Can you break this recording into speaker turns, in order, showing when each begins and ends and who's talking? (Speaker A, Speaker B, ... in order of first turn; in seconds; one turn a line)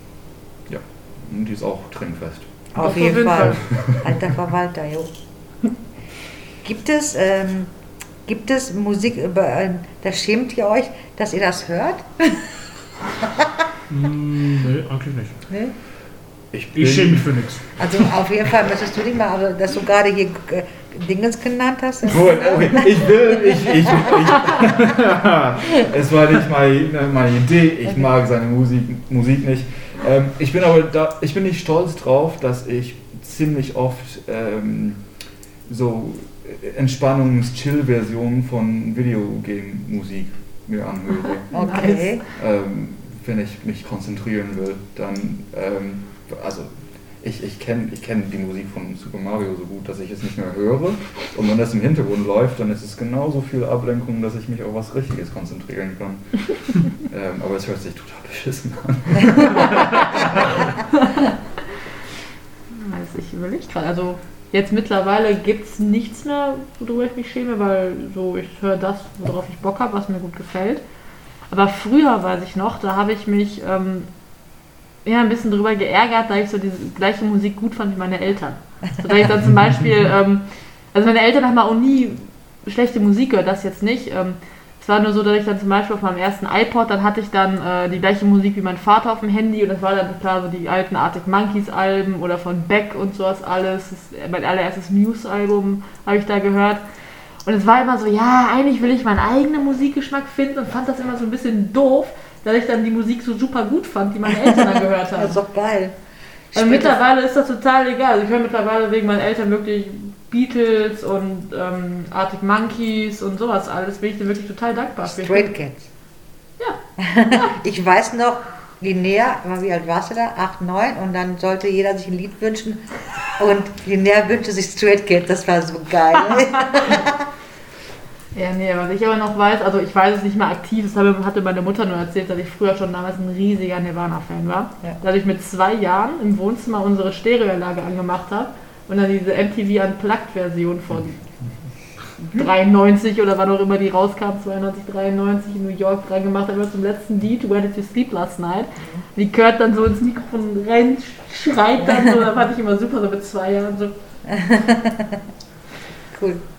Speaker A: 0.7-2.6
Speaker B: 2.7-5.1
Speaker C: 2.8-3.6
Speaker A: 3.7-4.1
Speaker B: 6.6-7.7
Speaker B: 8.2-12.6
Speaker B: 13.2-13.7
Speaker D: 13.9-15.4
Speaker B: 15.5-15.7
Speaker A: 16.5-17.4
Speaker D: 16.7-17.8
Speaker B: 17.8-23.0
Speaker A: 22.1-35.0
Speaker B: 23.9-24.2
Speaker A: 35.7-41.5
Speaker C: 41.5-42.2
Speaker B: 41.5-42.2
Speaker A: 42.3-60.7
Speaker C: 62.7-70.8
Speaker C: 71.5-74.1
Speaker C: 75.0-96.8
Speaker C: 97.4-105.4
Speaker B: 104.5-105.9
Speaker B: 106.5-107.0
Speaker C: 106.5-115.5
Speaker B: 115.0-115.9
Speaker C: 116.6-117.5
Speaker B: 117.0-127.3
Speaker C: 128.3-141.2
Speaker C: 142.3-153.9
Speaker B: 154.3-155.2
Speaker B: 156.1-156.4